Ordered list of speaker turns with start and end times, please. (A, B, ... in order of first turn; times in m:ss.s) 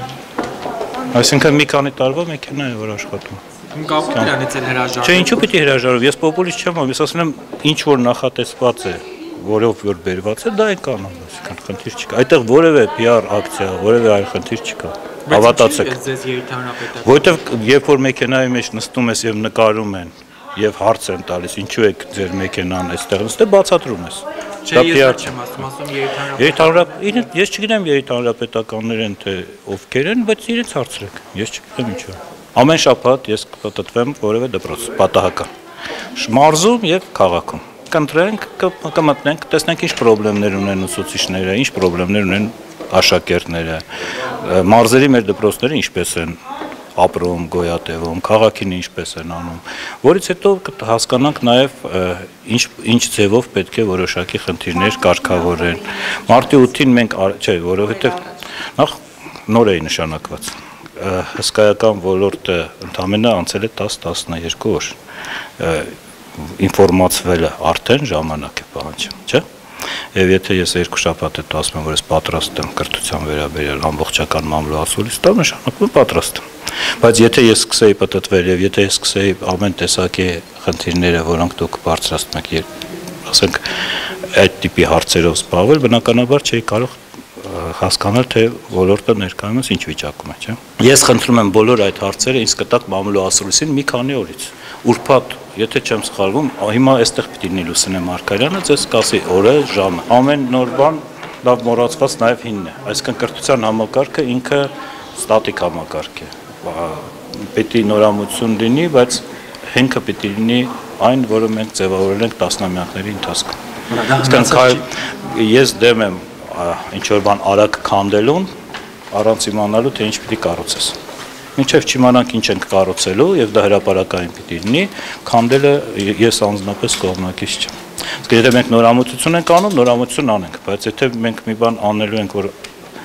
0:01.1-0:03.4 A
0:03.7-0:05.5 B
0:05.0-0:16.0 A
0:15.3-0:17.4 B
0:17.0-0:25.3 A
0:24.6-0:27.3 B
0:26.4-0:35.5 A
0:36.1-0:43.8 A
0:44.4-0:46.4 A
0:46.9-0:58.9 A
0:59.4-1:05.0 A
1:05.6-1:09.4 A
1:10.1-1:16.4 A
1:17.0-1:22.6 A
1:23.2-1:23.8 A
1:24.3-1:53.5 A
1:53.9-1:54.8 B
1:54.1-1:58.5 A
1:59.1-2:01.0 A
2:01.6-2:07.7 A
2:08.2-2:12.5 A